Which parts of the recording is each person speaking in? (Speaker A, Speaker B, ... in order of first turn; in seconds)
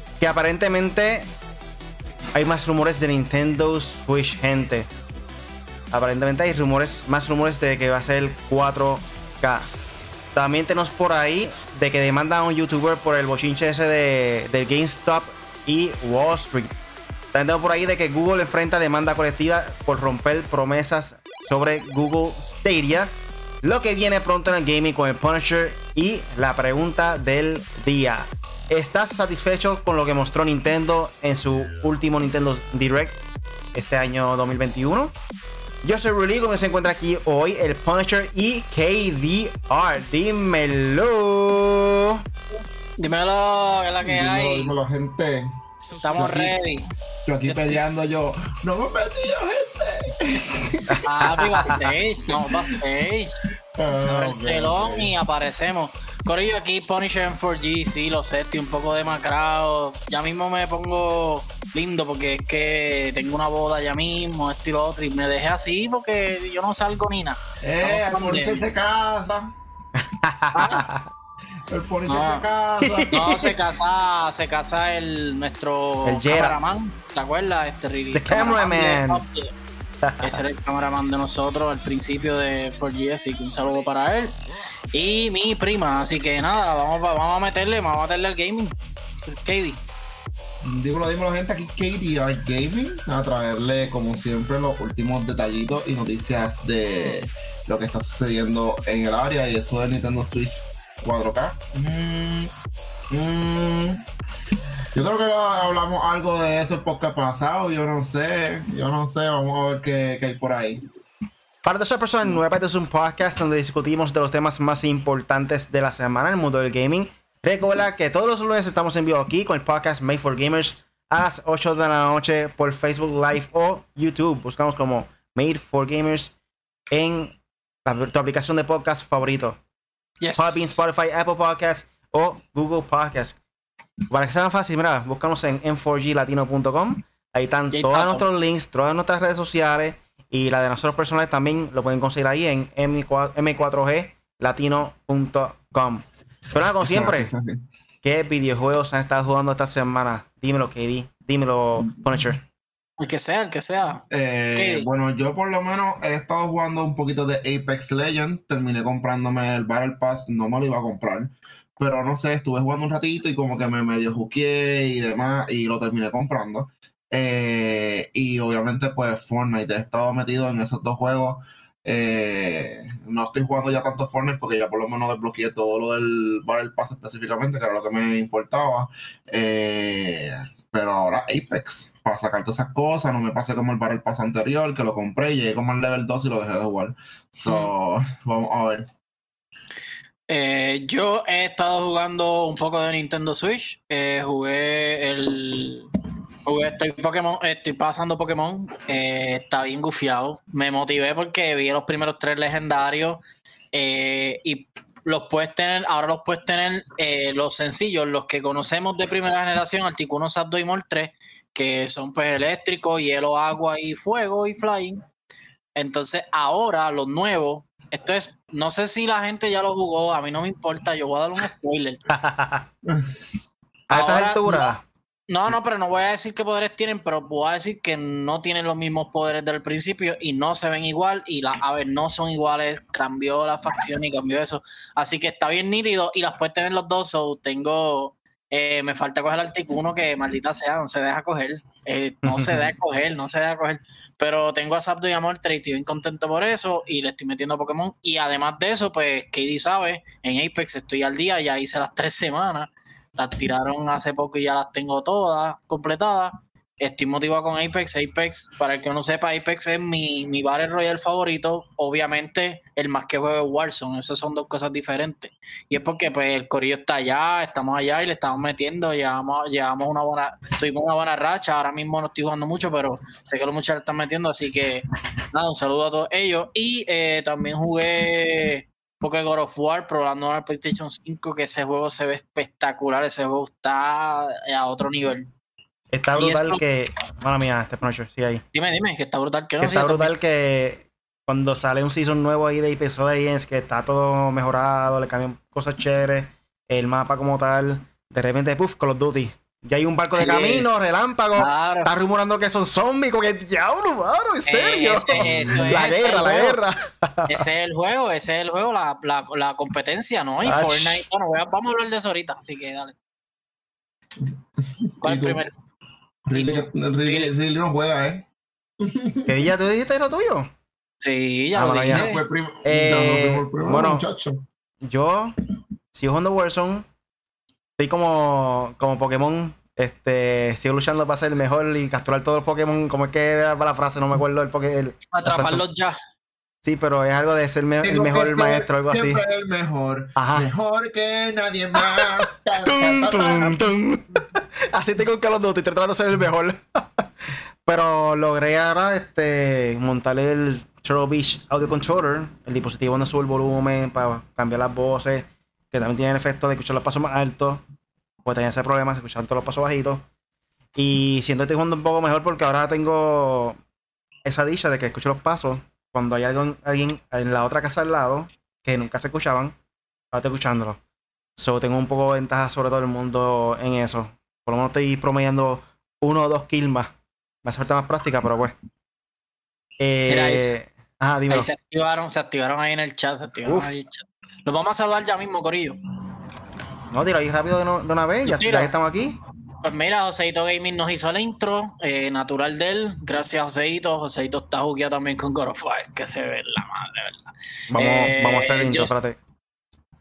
Speaker A: 0.2-1.3, 2.4-4.9, 5.9-9.7, 10.3-16.7, 17.3-23.1, 23.6-33.2, 33.7-35.1, 35.8-42.2, 50.9-51.9, 70.0-71.1, 72.8-73.5, 76.0-76.6, 78.1-79.2, 80.0-80.4, 111.7-126.3, 126.9-129.6, 130.4-133.4, 134.1-147.3, 148.0-152.4, 222.1-222.7, 223.9-224.8, 242.2-242.8, 285.9-288.4, 289.6-307.5, 310.4-311.1, 319.3-320.5, 321.6-322.1, 322.6-324.1, 324.8-325.3, 325.9-326.9, 327.8-335.6, 336.6-339.2, 340.2-340.5, 341.8-357.6, 358.2-360.1, 360.8-363.6, 364.2-369.6, 370.1-370.8, 371.4-378.6, 379.8-381.5, 383.5-383.7, 386.9-389.2, 397.7-399.2
Speaker B: 43.0-44.7, 46.0-46.9, 51.0-53.4, 54.0-68.6, 70.5-70.9, 72.1-72.5, 73.1-79.5, 80.2-84.3, 84.9-89.8, 130.2-130.8, 137.7-138.2, 153.0-154.0, 154.6-154.9, 187.5-187.7, 190.3-195.9, 196.4-203.2, 203.7-215.0, 215.8-222.1, 223.9-224.7, 225.3-285.3, 286.2-286.6, 288.5-290.1, 300.2-300.7, 301.4-301.9, 304.5-306.6, 307.3-313.0, 315.0-315.5, 316.3-317.3, 321.0-322.2, 335.1-336.0, 380.1-380.5, 381.3-385.8, 388.3-388.7, 389.6-399.0
Speaker C: 44.0-45.5, 46.2-46.5, 47.3-51.0, 53.8-55.1, 67.6-69.5, 71.7-73.4, 90.6-102.5, 103.1-104.0, 104.9-110.9, 146.8-147.6, 154.1-188.9, 222.8-223.2, 305.2-305.6, 314.8-315.4, 316.3-318.3, 318.8-319.5, 321.9-324.4, 337.8-343.6